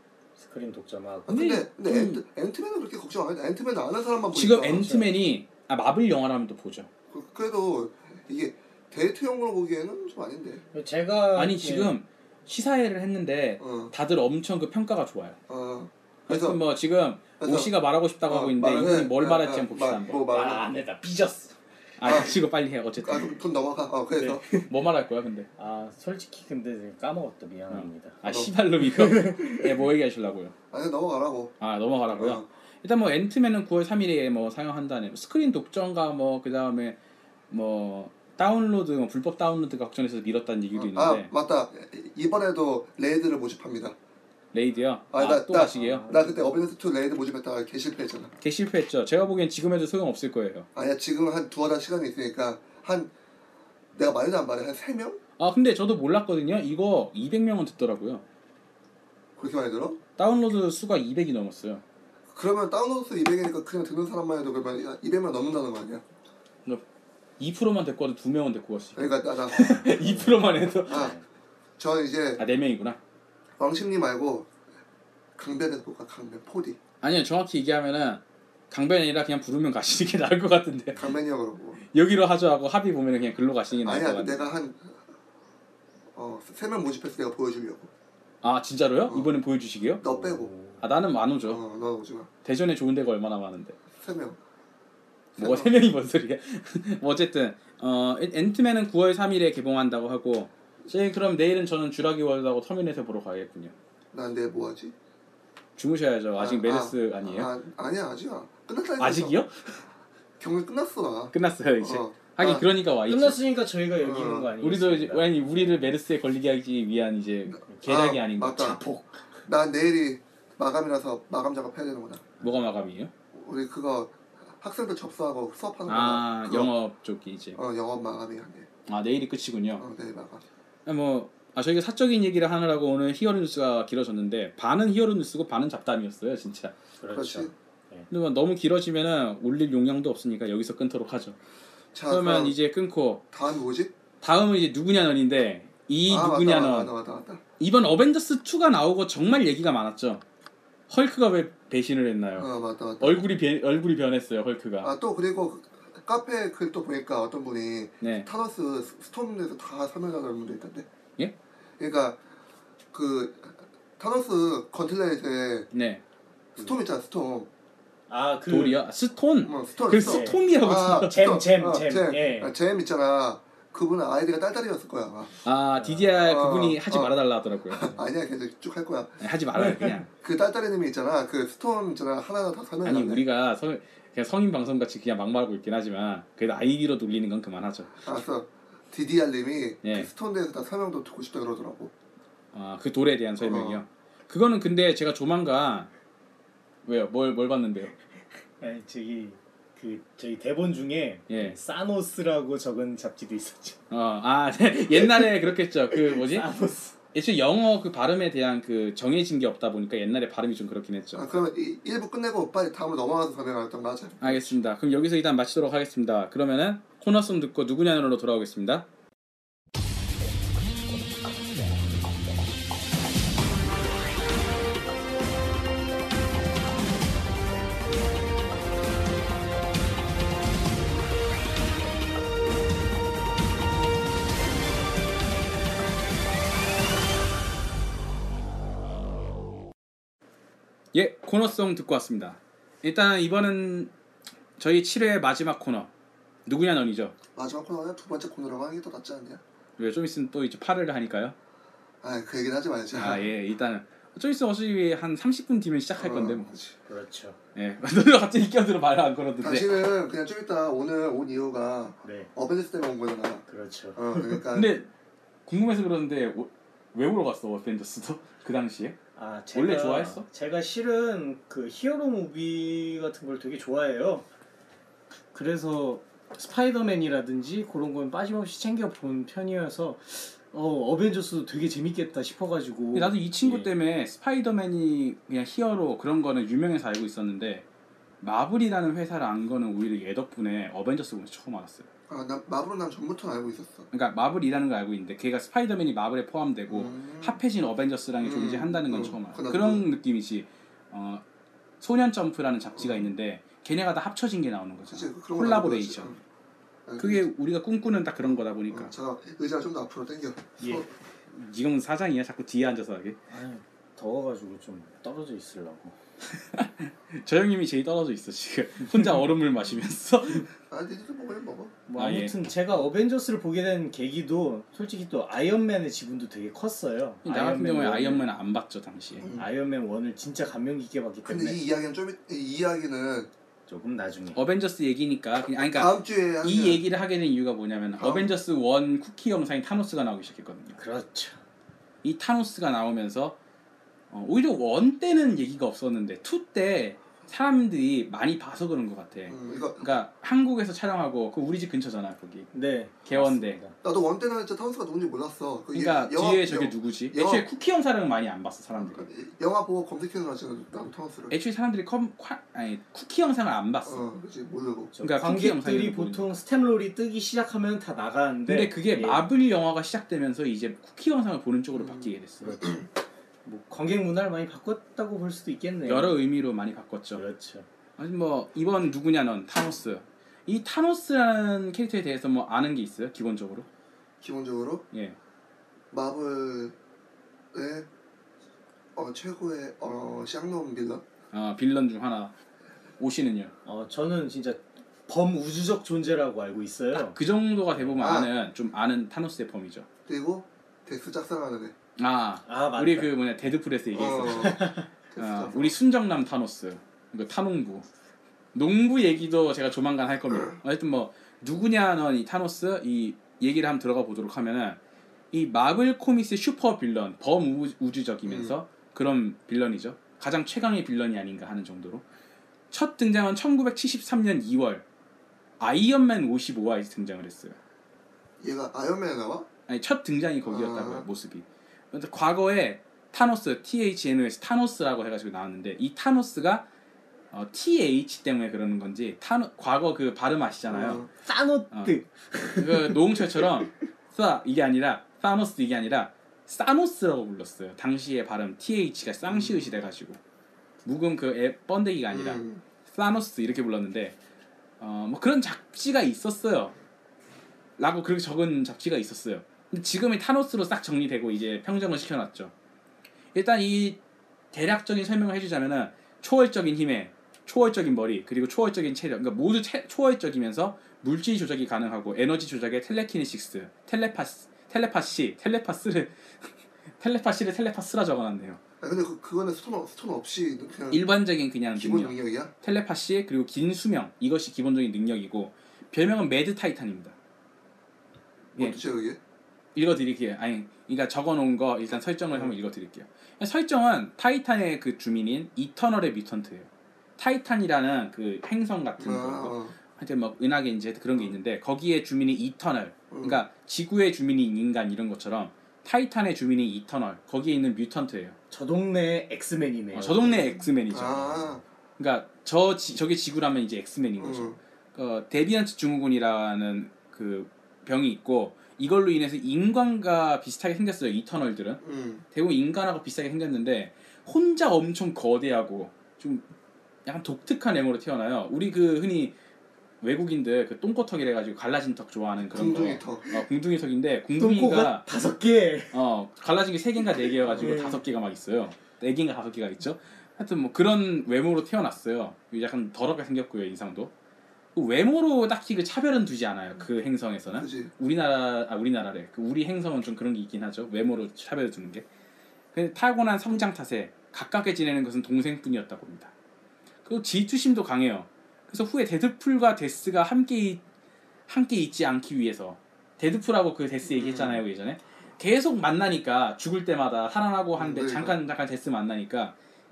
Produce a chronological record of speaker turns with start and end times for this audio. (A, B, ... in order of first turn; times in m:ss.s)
0:00.4-0:01.3 A
0:01.3-0:04.9 B
0:01.3-0:02.2 C
0:04.3-0:06.9 C
0:04.8-0:05.1 A
0:07.1-0:10.6 B
0:10.7-0:12.0 A
0:11.4-0:15.4 C
0:13.6-0:13.9 B
0:15.5-0:16.6 B
0:16.3-0:20.2 C
0:17.4-0:17.7 B
0:18.3-0:20.8 B
0:20.3-0:21.6 A
0:22.0-0:23.3 C
0:22.0-0:22.3 B
0:23.0-0:24.4 B
0:24.2-0:24.7 A
0:24.5-0:25.5 C
0:25.6-0:28.2 A
0:27.7-0:30.5 C
0:28.2-0:28.5 B
0:28.8-0:29.6 A
0:30.7-0:31.5 B
0:31.6-0:37.0 C
0:32.1-0:32.4 B
0:37.5-0:41.3 C
0:40.7-0:44.0 B
0:44.5-0:46.1 C
0:45.1-0:48.3 B
0:45.6-0:46.6 A
0:48.4-0:50.7 C
0:50.7-0:53.1 B
0:53.9-0:55.2 B
0:55.4-0:58.2 C
0:59.4-1:00.0 B
1:00.2-1:01.8 C
1:02.3-1:06.1 B
1:07.4-1:11.1 C
1:09.0-1:09.9 B
1:09.6-1:11.2 A
1:10.9-1:11.1 B
1:11.8-1:12.4 B
1:12.4-1:13.0 C
1:13.6-1:14.5 B
1:15.4-1:16.8 B
1:17.0-1:21.0 C
1:21.0-1:21.8 B
1:21.9-1:24.5 C
1:23.7-1:25.0 B
1:26.1-1:27.9 B
1:28.4-1:30.0 C
1:30.0-1:30.5 B
1:30.0-1:30.8 A
1:30.8-1:31.6 C
1:31.4-1:32.3 B
1:32.4-1:33.8 C
1:33.9-1:34.4 B
1:35.4-1:35.7 B
1:35.4-1:43.7 C
1:44.1-1:44.9 B
1:45.8-1:47.5 C
1:46.4-1:49.4 B
1:49.0-1:49.8 C
1:50.4-1:52.6 B
1:51.3-1:53.4 C
1:53.1-1:55.8 A
1:54.0-1:54.5 B
1:54.6-1:59.0 C
1:57.7-1:58.8 B
1:59.4-2:02.2 B
2:02.4-2:03.1 C
2:03.3-2:06.7 B
2:05.9-2:07.6 C
2:07.6-2:08.7 B
2:08.9-2:09.8 C
2:09.8-2:10.4 B
2:10.8-2:16.7 C
2:17.0-2:18.1 A
2:17.1-2:17.5 B
2:18.1-2:21.4 C
2:21.9-2:22.6 B
2:22.1-2:23.2 C
2:23.3-2:23.9 B
2:24.2-2:26.9 C
2:26.1-2:27.4 B
2:27.6-2:30.2 C
2:30.9-2:32.5 C
2:32.4-2:33.2 B
2:33.0-2:34.9 C
2:34.8-2:40.9 B
2:38.0-2:38.3 C
2:41.8-2:42.2 B
2:42.9-2:45.7 B
2:45.7-2:46.0 C
2:46.6-2:47.5 B
2:48.1-2:48.8 A
2:48.5-2:51.1 C
2:49.4-2:55.4 B
2:50.0-2:52.5 A
2:55.4-2:58.0 C
2:55.8-2:56.1 A
2:56.2-2:57.2 B
2:57.7-2:59.2 B
2:59.2-3:00.1 C
2:59.6-3:00.0 A
3:00.2-3:03.2 B
3:02.8-3:08.0 C
3:08.0-3:11.9 B
3:09.8-3:10.1 C
3:12.5-3:15.9 C
3:13.4-3:13.8 B
3:16.8-3:17.9 C
3:18.6-3:23.8 A
3:21.3-3:21.6 C
3:23.9-3:26.5 C
3:26.1-3:27.0 A
3:27.1-3:31.3 C
3:31.1-3:34.5 B
3:34.2-3:38.9 C
4:00.9-4:03.9 C
4:04.6-4:05.9 C
4:06.4-4:07.1 C
4:07.3-4:09.4 B
4:09.8-4:11.3 C
4:12.0-4:13.2 B
4:13.0-4:16.5 C
4:16.0-4:16.8 B
4:16.9-4:17.4 A
4:17.5-4:19.8 C
4:19.4-4:23.4 B
4:22.0-4:22.3 A
4:23.5-4:24.4 A
4:24.0-4:24.7 B
4:24.5-4:24.9 C
4:25.4-4:29.0 C
4:29.2-4:34.2 A
4:29.5-4:30.2 C
4:35.3-4:43.7 A
4:42.9-4:47.6 C
4:48.2-4:51.9 C
4:52.1-4:53.9 B
4:53.9-5:01.2 C
4:56.7-4:57.4 B
4:58.2-4:59.8 B
5:01.8-5:06.1 C
5:02.8-5:03.1 B
5:04.9-5:06.2 B
5:06.8-5:07.2 B
5:07.0-5:08.9 C
5:08.2-5:10.8 B
5:11.3-5:13.2 C
5:13.3-5:16.0 A
5:16.4-5:20.5 C
5:20.5-5:21.8 B
5:21.9-5:28.3 A
5:22.0-5:22.3 C
5:27.2-5:29.3 C
5:29.2-5:29.4 B
5:29.3-5:31.6 A
5:31.2-5:33.3 B
5:33.7-5:34.4 A
5:34.3-5:40.8 C
5:35.7-5:36.8 B
5:38.0-5:38.3 B
5:40.7-5:41.4 A
5:42.0-5:43.4 C
5:44.1-5:52.5 C
5:49.3-5:49.9 B
5:52.5-5:53.7 A
5:53.0-5:53.6 C
5:53.8-5:57.4 B
5:55.7-5:59.1 C
5:58.7-6:01.3 B
6:01.3-6:04.1 C
6:03.8-6:04.9 B
6:04.9-6:09.3 A
6:05.0-6:06.4 C
6:08.5-6:12.6 C
6:11.7-6:12.8 B
6:12.4-6:12.7 A
6:13.4-6:16.2 A
6:15.8-6:17.2 C
6:17.1-6:17.7 A
6:18.0-6:23.7 C
6:24.2-6:24.8 B
6:25.9-6:26.8 B
6:27.5-6:27.9 B
6:29.0-6:31.0 B
6:31.3-6:32.3 C
6:33.0-6:33.5 C
6:33.6-6:37.2 A
6:36.9-6:39.9 C
6:37.7-6:38.0 A
6:38.0-6:38.3 B
6:40.1-6:41.7 B
6:42.0-6:44.6 C
6:42.4-6:43.1 A
6:43.9-6:45.7 B
6:44.2-6:44.9 A
6:45.2-6:47.8 C
6:48.5-6:54.8 C
6:50.3-6:50.6 B
6:55.3-7:02.0 C
6:58.2-6:58.6 B
7:02.7-7:04.8 C
7:05.6-7:07.6 C
7:08.4-7:09.5 B
7:09.7-7:16.7 C
7:10.4-7:11.0 B
7:17.3-7:21.0 C
7:20.7-7:21.1 B
7:21.1-7:23.7 A
7:21.7-7:22.0 C
7:22.5-7:30.2 C
7:29.2-7:29.7 B
7:30.8-7:34.2 C
7:32.1-7:32.6 B
7:34.8-7:36.7 C
7:37.8-7:42.5 C
7:43.3-7:44.0 C
7:44.5-7:56.1 C
7:57.0-7:58.6 C
7:58.8-8:01.0 B
8:00.9-8:07.1 C
8:01.8-8:02.5 B
8:08.6-8:09.2 B
8:09.7-8:28.4 C
8:12.3-8:12.6 B
8:19.0-8:19.8 B
8:23.1-8:23.4 B
8:28.5-8:30.5 A
8:29.9-8:41.8 C
8:30.9-8:31.6 B
8:34.2-8:34.6 B
8:41.8-8:42.2 B
8:42.3-8:46.4 C
8:47.0-8:49.3 C
8:50.0-8:55.0 C
8:52.4-8:53.4 B
8:54.4-8:56.0 A
8:55.9-9:04.1 C
8:57.3-8:57.8 B
8:57.6-8:58.0 A
9:04.7-9:12.0 C
9:07.5-9:07.9 B
9:12.7-9:16.3 C
9:17.0-9:20.8 C
9:21.5-9:29.5 C
9:24.0-9:24.6 B
9:27.8-9:28.4 B